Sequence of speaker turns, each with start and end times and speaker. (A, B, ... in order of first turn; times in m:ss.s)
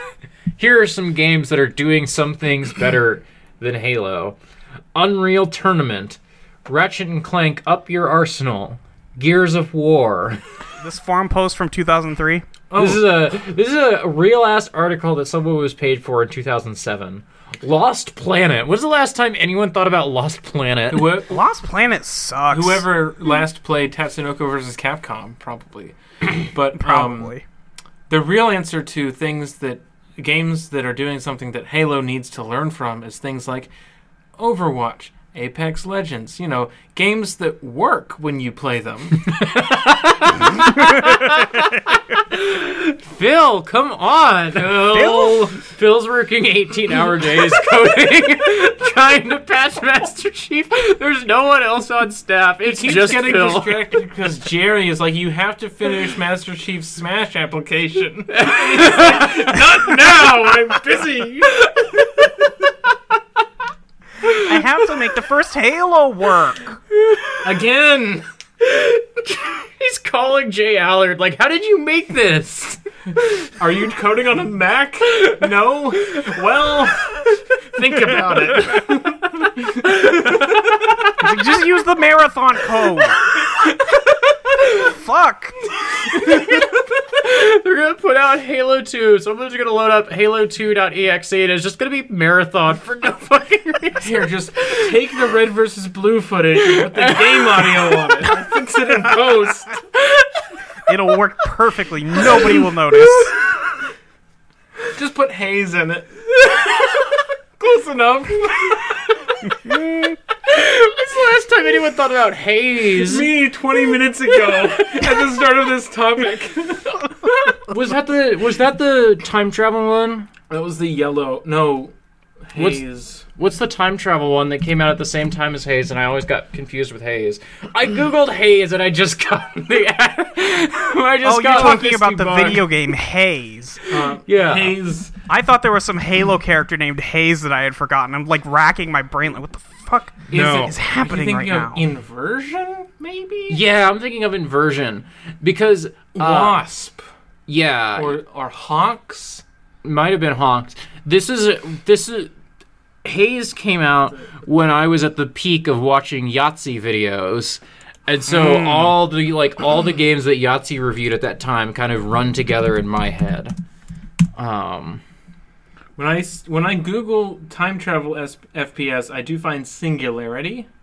0:00.6-0:04.4 A
0:05.0-0:10.4 A
0:10.8-0:12.5 B
0:12.7-0:13.2 C
0:12.8-0:21.1 A
0:20.9-0:21.4 C
0:21.3-0:22.9 B
0:22.5-0:27.4 C
0:26.8-0:27.4 B
0:28.1-0:33.7 C
0:34.4-0:39.3 C
0:39.3-0:53.9 A
0:44.6-0:45.6 C
0:44.9-0:45.5 B
0:52.6-1:01.7 C
0:58.3-0:59.5 A
1:04.5-1:06.8 B
1:07.4-1:08.2 C
1:08.6-1:12.8 A
1:13.6-1:20.4 C
1:21.2-1:23.2 B
1:24.8-1:25.6 B
1:26.1-1:34.9 A
1:34.0-1:39.8 C
1:36.8-1:38.2 A
1:40.9-1:43.3 B
1:44.9-1:49.1 C
1:49.6-1:50.2 B
1:50.5-1:53.3 A
1:52.9-1:57.0 C
1:57.2-2:00.3 A
2:00.5-2:01.9 C
2:02.5-2:03.2 C
2:02.6-2:02.8 A
2:03.4-2:12.8 A
2:11.2-2:13.8 B
2:13.9-2:15.2 C
2:14.2-2:14.8 A
2:15.3-2:21.9 B
2:20.3-2:20.8 A
2:20.3-2:23.6 C
2:23.5-2:26.6 A
2:26.2-2:27.1 C
2:27.5-2:28.2 A
2:28.0-2:29.4 C
2:29.8-2:32.3 A
2:33.0-2:43.6 A
2:38.3-2:39.0 B
2:44.4-2:45.0 A
2:46.0-2:50.7 C